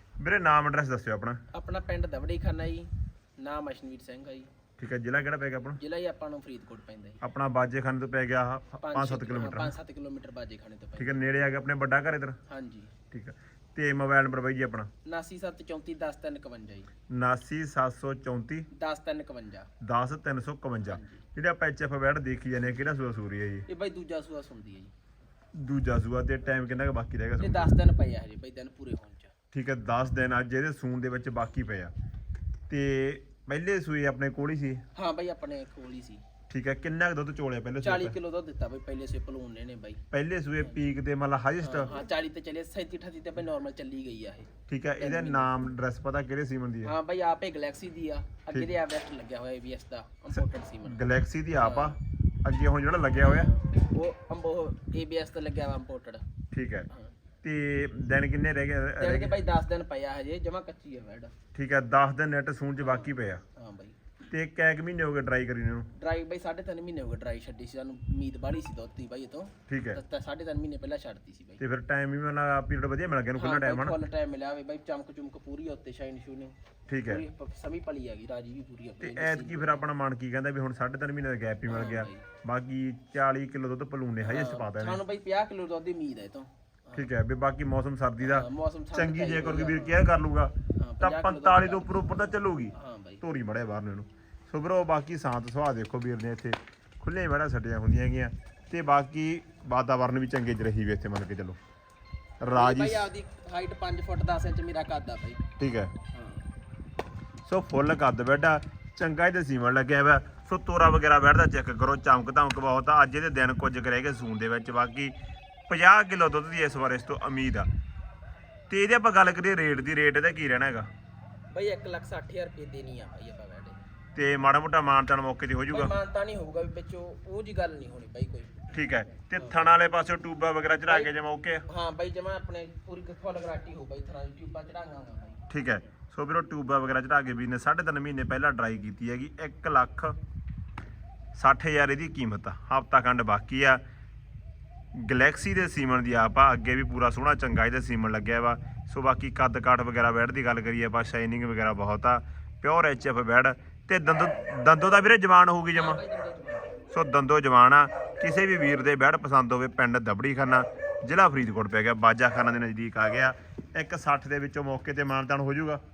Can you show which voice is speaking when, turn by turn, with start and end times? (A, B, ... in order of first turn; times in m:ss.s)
0:00.2-0:01.4 A
0:01.5-0:04.5 B
0:04.8-0:05.8 A
0:05.8-0:07.2 B
0:07.2-0:09.7 A
0:08.8-0:11.3 B
0:11.0-0:12.4 A
0:12.5-0:12.9 B
0:13.1-0:14.9 A
0:15.0-0:16.9 B
0:17.1-0:18.7 A
0:18.7-0:19.7 B
0:19.8-0:23.6 A
0:20.8-0:21.2 B
0:22.6-0:22.9 B
0:23.7-0:24.9 B
0:25.5-0:27.7 A
0:27.4-0:29.3 B
0:29.5-0:31.9 A
0:32.7-0:34.8 A
0:34.9-0:36.2 B
0:36.5-0:38.1 A
0:37.8-0:40.0 B
0:40.1-0:41.9 A
0:41.6-0:44.5 B
0:44.7-0:46.9 A
0:45.0-0:45.6 B
0:46.8-0:51.0 B
0:50.3-0:53.5 A
0:51.5-0:52.0 B
0:53.2-0:56.2 B
0:56.5-0:56.9 A
0:56.9-0:57.1 B
0:57.4-0:59.3 A
0:59.0-1:01.3 B
1:01.5-1:03.4 A
1:02.8-1:04.1 B
1:04.3-1:05.9 A
1:05.9-1:11.6 B
1:09.7-1:10.0 A
1:11.6-1:14.0 A
1:13.4-1:19.8 B
1:16.9-1:17.2 A
1:19.0-1:25.0 A
1:21.7-1:22.2 B
1:24.2-1:27.1 B
1:26.9-1:41.6 A
1:28.2-1:30.0 B
1:30.8-1:33.2 B
1:42.4-1:43.1 A
1:42.5-1:45.4 B
1:45.6-1:45.9 A
1:46.1-1:46.4 B
1:47.4-1:55.1 A
1:55.7-1:57.7 A
1:58.7-2:00.9 A
2:01.5-2:03.8 B
2:04.1-2:05.9 A
2:05.7-2:08.7 B
2:08.7-2:11.6 A
2:09.3-2:09.6 B
2:10.7-2:11.1 B
2:11.7-2:15.5 B
2:15.5-2:20.1 A
2:21.3-2:23.8 A
2:24.9-2:36.0 A
2:35.7-2:36.8 B
2:36.9-2:45.8 A